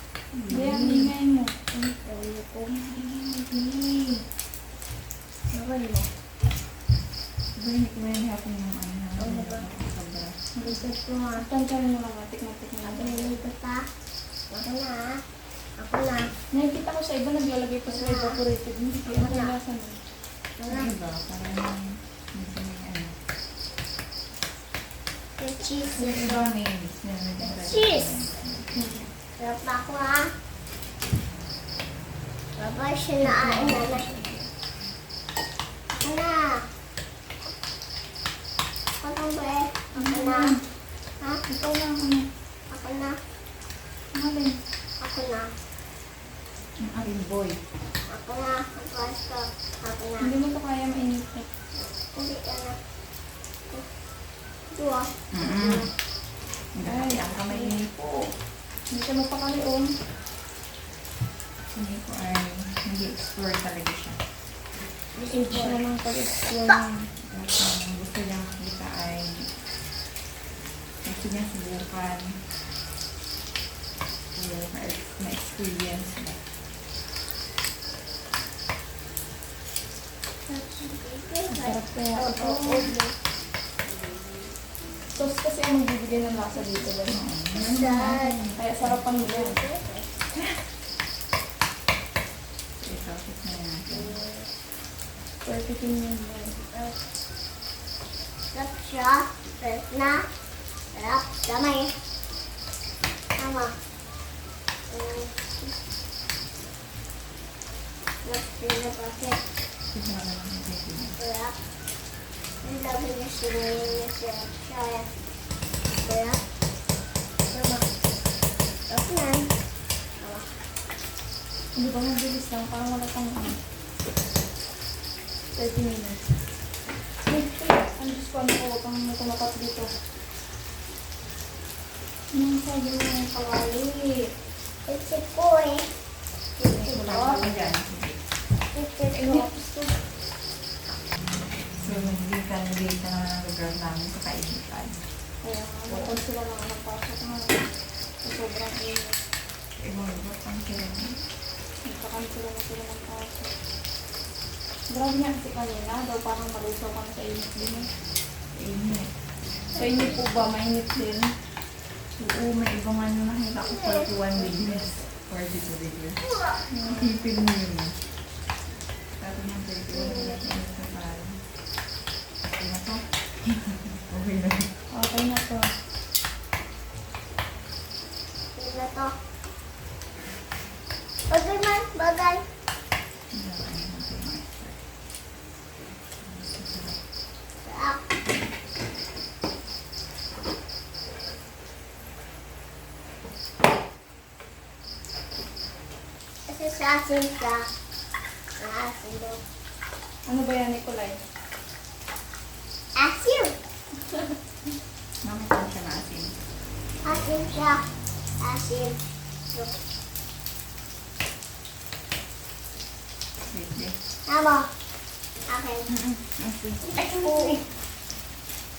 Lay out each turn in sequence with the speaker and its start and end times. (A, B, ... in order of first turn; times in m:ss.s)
0:00.3-0:01.1 A
0:00.5-0:04.2 B
0:05.5-0:06.1 B
0:07.6-0:10.4 A
0:09.2-0:09.6 C
0:10.5-0:13.4 B
0:10.6-0:11.4 C
0:12.8-0:13.8 C
0:14.5-0:15.2 C
0:15.8-0:16.3 C
0:16.5-0:20.0 B
0:17.9-0:18.4 C
0:19.0-0:19.5 C
0:20.6-0:20.9 C
0:20.7-0:23.2 A
0:25.4-0:26.5 C
0:26.0-0:28.8 A
0:26.0-0:26.4 B
0:27.4-0:28.2 C
0:28.7-0:29.1 B
0:29.4-0:30.3 C
0:32.6-0:34.1 C
0:33.2-0:34.3 B
0:35.9-0:36.6 C
0:39.0-0:40.5 C
0:39.9-0:40.6 B
0:41.5-0:42.3 B
0:42.7-0:43.2 C
0:44.1-0:44.6 B
0:45.0-0:45.5 C
0:46.8-0:47.6 A
0:48.1-0:50.3 C
0:50.2-0:51.5 B
0:52.1-0:52.8 C
0:54.7-0:55.9 C
0:55.3-0:55.9 A
0:56.7-0:58.2 A
0:56.8-0:57.7 B
0:58.9-0:59.9 B
1:01.7-1:04.2 A
1:05.1-1:05.8 C
1:05.3-1:07.1 B
1:07.2-1:09.5 A
1:11.0-1:12.4 A
1:14.3-1:16.4 A
1:20.5-1:23.1 C
1:21.5-1:22.9 B
1:25.1-1:27.2 B
1:27.1-1:28.9 A
1:27.5-1:30.1 C
1:28.5-1:29.6 B
1:32.8-1:34.1 A
1:33.9-1:34.5 C
1:35.4-1:36.6 B
1:38.5-1:40.2 C
1:40.9-1:41.9 C
1:43.4-1:43.7 C
1:44.9-1:45.7 C
1:48.2-1:49.4 C
1:49.9-1:51.2 A
1:51.2-1:51.5 C
1:52.6-1:55.1 C
1:56.0-1:56.4 C
1:57.5-1:57.8 C
1:58.9-1:59.5 C
2:00.2-2:00.5 C
2:01.7-2:03.6 B
2:05.5-2:06.2 B
2:07.3-2:09.9 B
2:12.3-2:14.3 B
2:14.9-2:15.9 C
2:16.6-2:17.7 B
2:16.9-2:18.2 A
2:18.8-2:19.9 B
2:19.2-2:19.5 C
2:21.8-2:25.0 A
2:25.4-2:29.2 B
2:29.8-2:31.2 A
2:31.8-2:33.5 B
2:34.9-2:37.9 B
2:38.5-2:39.1 A
2:39.7-2:40.2 C
2:39.7-2:41.3 B
2:42.2-2:46.2 A
2:43.6-2:45.0 C
2:46.2-2:46.6 C
2:46.7-2:47.1 B
2:46.8-2:47.9 A
2:49.2-2:51.4 A
2:49.9-2:50.4 C
2:52.4-2:54.7 A
2:54.9-2:55.7 B
2:58.6-2:59.1 C
3:01.3-3:02.4 C
3:03.3-3:04.8 A
3:06.2-3:07.0 A
3:07.6-3:08.0 C
3:16.5-3:17.7 C
3:18.6-3:19.4 C
3:20.2-3:21.2 B
3:23.0-3:23.5 C
3:25.2-3:26.3 A
3:27.0-3:27.8 C
3:28.4-3:29.0 C
3:33.5-3:34.0 A
3:34.3-3:34.7 C
3:35.5-3:35.9 C
3:35.9-3:37.4 A
3:36.9-3:37.6 C